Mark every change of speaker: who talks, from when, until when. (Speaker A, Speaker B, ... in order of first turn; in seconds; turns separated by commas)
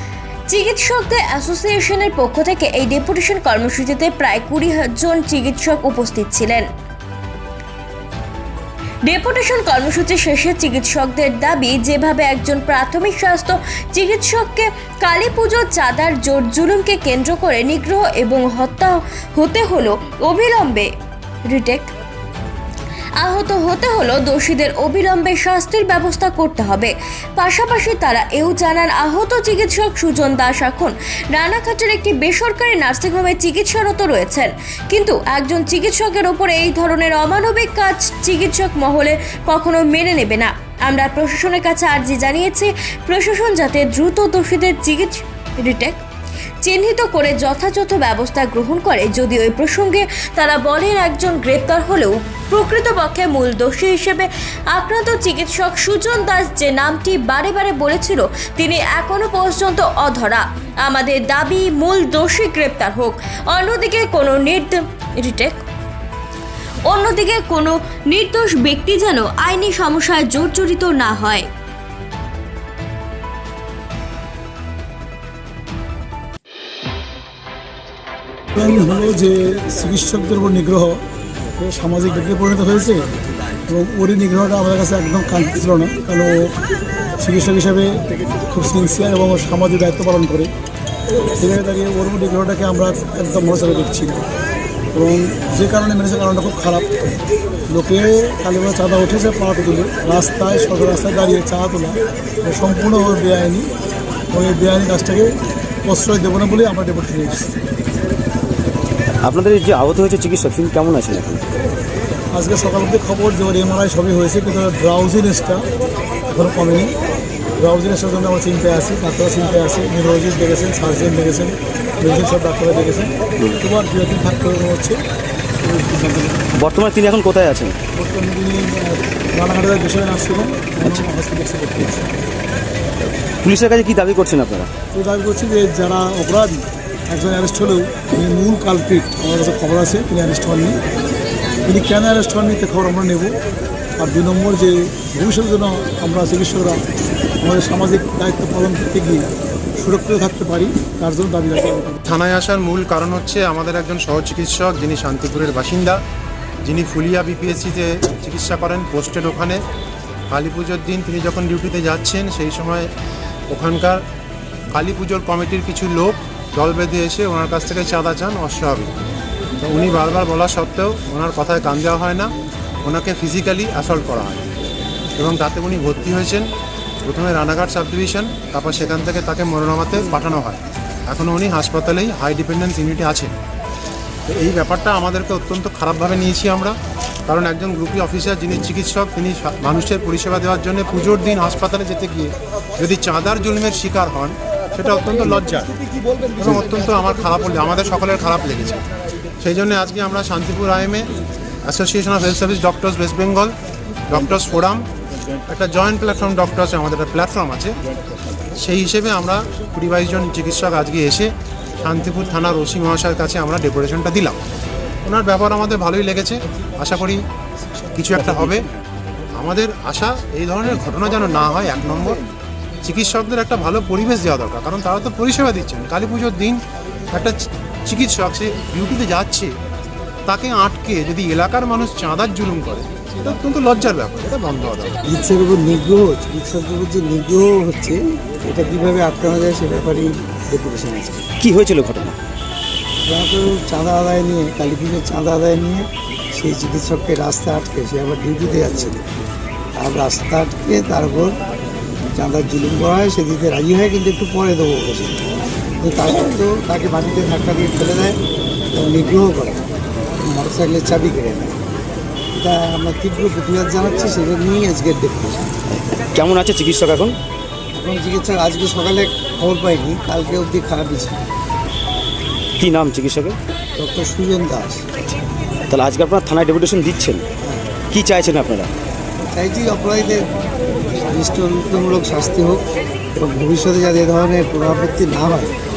Speaker A: 0.5-6.6, Speaker A: 9.1-20.9, Speaker A: 21.5-21.9, Speaker A: 23.2-46.0, Speaker A: 46.6-65.6, Speaker A: 66.8-71.5, Speaker B: 78.5-81.0, Speaker B: 81.6-83.1, Speaker B: 83.7-86.5, Speaker B: 87.2-90.5, Speaker B: 91.4-94.2, Speaker B: 94.9-96.9, Speaker B: 97.7-103.7, Speaker B: 104.3-107.5, Speaker C: 109.3-111.4, Speaker B: 112.3-115.7, Speaker B: 116.3-116.9, Speaker B: 117.6-125.0, Speaker B: 125.6-126.5, Speaker C: 126.6-127.8, Speaker B: 127.9-132.1, Speaker C: 133.4-134.7, Speaker B: 134.9-140.8, Speaker B: 141.6-143.4, Speaker B: 144.0-146.8, Speaker B: 147.4-152.0, Speaker D: 152.1-156.0, Speaker D: 156.6-159.6, Speaker D: 160.3-162.9, Speaker D: 163.5-164.0, Speaker D: 164.7-168.9, Speaker D: 169.6-172.3, Speaker D: 172.8-174.5, Speaker D: 175.2-176.5, Speaker D: 177.0-183.3, Speaker D: 184.2-186.8, Speaker D: 187.3-195.7, Speaker D: 196.3-198.8, Speaker D: 199.4-201.1, Speaker D: 201.6-203.5, Speaker D: 204.1-204.9, Speaker D: 205.5-207.8, Speaker D: 208.5-214.4, Speaker D: 215.0-217.2, Speaker D: 217.9-218.7, Speaker D: 219.3-222.2, Speaker D: 222.8-229.5, Speaker D: 230.2-235.0, Speaker E: 235.1-241.3, Speaker C: 241.5-242.1, Speaker E: 243.1-249.1, Speaker E: 249.8-251.4, Speaker E: 252.1-255.2, Speaker E: 255.8-258.2, Speaker E: 258.7-259.6, Speaker E: 260.2-261.6, Speaker E: 262.4-265.5, Speaker C: 266.2-267.1, Speaker E: 267.8-271.2, Speaker C: 272.6-273.4, Speaker E: 273.8-274.8, Speaker C: 275.7-277.2, Speaker E: 277.4-277.7, Speaker C: 277.9-278.7, Speaker E: 279.2-280.3, Speaker E: 280.9-285.5